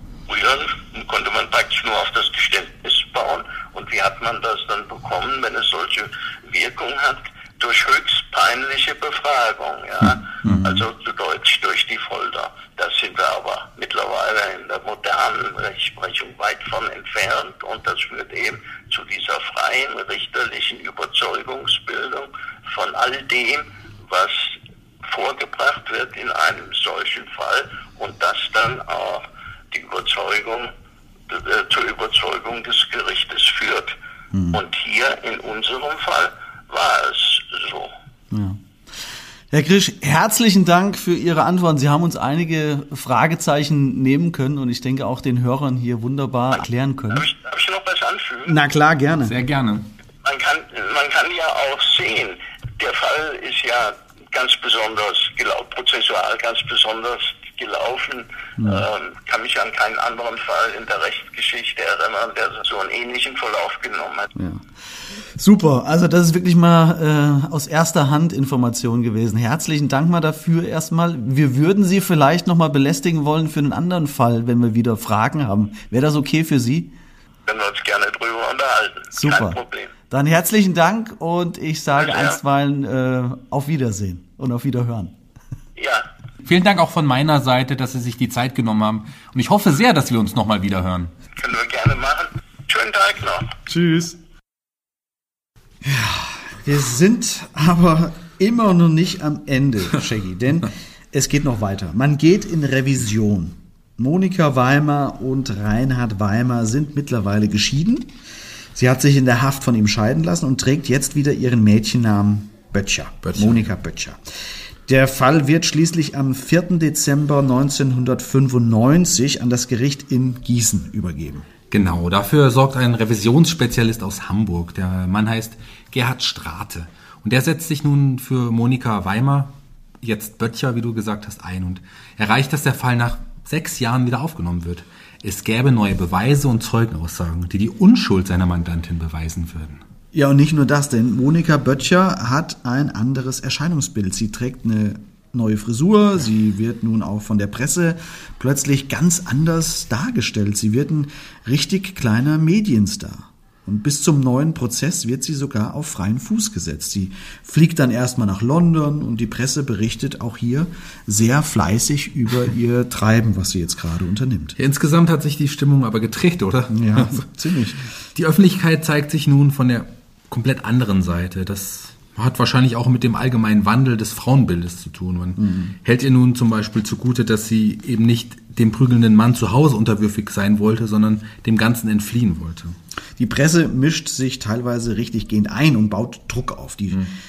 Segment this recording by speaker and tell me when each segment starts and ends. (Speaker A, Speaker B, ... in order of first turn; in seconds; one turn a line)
Speaker A: 0.3-30.7
Speaker B: 10.4-10.8
Speaker A: 31.3-34.0
Speaker B: 34.3-34.6
Speaker A: 34.5-37.9
Speaker B: 38.3-38.6
Speaker B: 39.5-47.3
Speaker A: 47.1-48.6
Speaker B: 48.5-49.4
Speaker C: 49.3-49.9
Speaker A: 50.2-64.3
Speaker B: 58.6-58.9
Speaker B: 64.4-76.9
Speaker A: 77.5-79.9
Speaker B: 79.1-85.1
Speaker A: 82.0-82.4
Speaker A: 85.8-86.0
Speaker C: 86.5-91.1
Speaker A: 91.4-93.5
Speaker B: 93.7-94.2
Speaker B: 95.8-108.1
Speaker B: 108.8-121.5
Speaker C: 113.2-113.7
Speaker C: 121.7-139.8
Speaker B: 140.1-164.6
Speaker C: 164.6-167.2
Speaker B: 166.7-167.9
Speaker C: 168.2-182.8
Speaker B: 175.4-175.8
Speaker B: 183.2-187.1